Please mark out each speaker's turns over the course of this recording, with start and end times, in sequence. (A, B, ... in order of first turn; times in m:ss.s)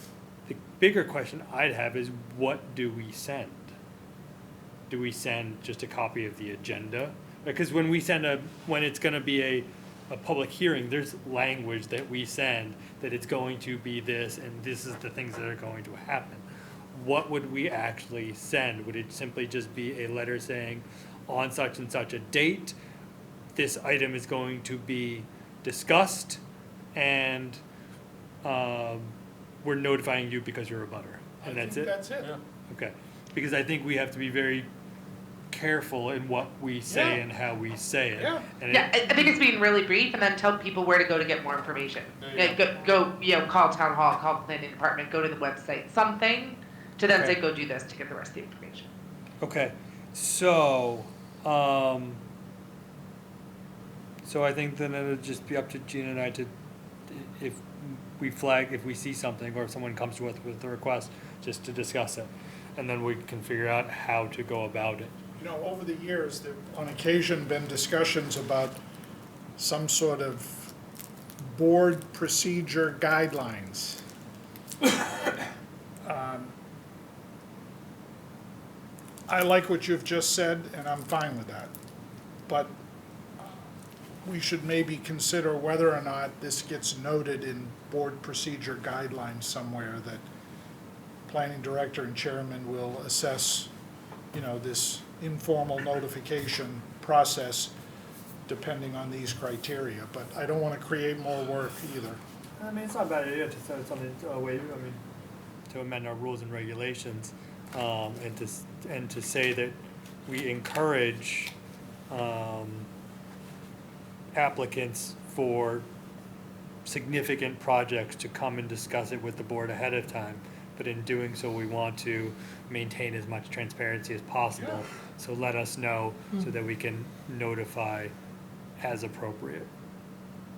0:00.5-0:03.7 A
0:04.9-0:22.7 A
0:23.6-0:26.4 A
0:26.9-0:27.6 A
0:28.4-0:31.9 A
0:31.4-0:32.4 B
0:32.7-0:34.7 A
0:35.5-0:39.3 A
0:36.9-0:37.2 B
0:38.2-0:38.5 B
0:38.7-0:48.9 C
0:42.2-0:42.6 B
0:47.1-0:47.4 A
0:49.4-0:52.2 A
0:54.2-0:56.5 A
0:57.1-1:05.1 A
1:05.4-1:08.8 B
1:09.6-1:10.7 B
1:11.4-1:14.0 B
1:16.0-1:16.5 B
1:19.3-1:21.7 B
1:22.5-1:22.7 B
1:24.2-1:30.2 B
1:31.3-1:33.7 B
1:34.3-1:37.7 B
1:38.5-1:42.2 B
1:42.6-1:45.0 A
1:45.7-1:51.5 A
1:52.1-1:52.9 A
1:54.3-1:55.9 A
1:56.8-2:08.1 A
2:08.8-2:09.7 A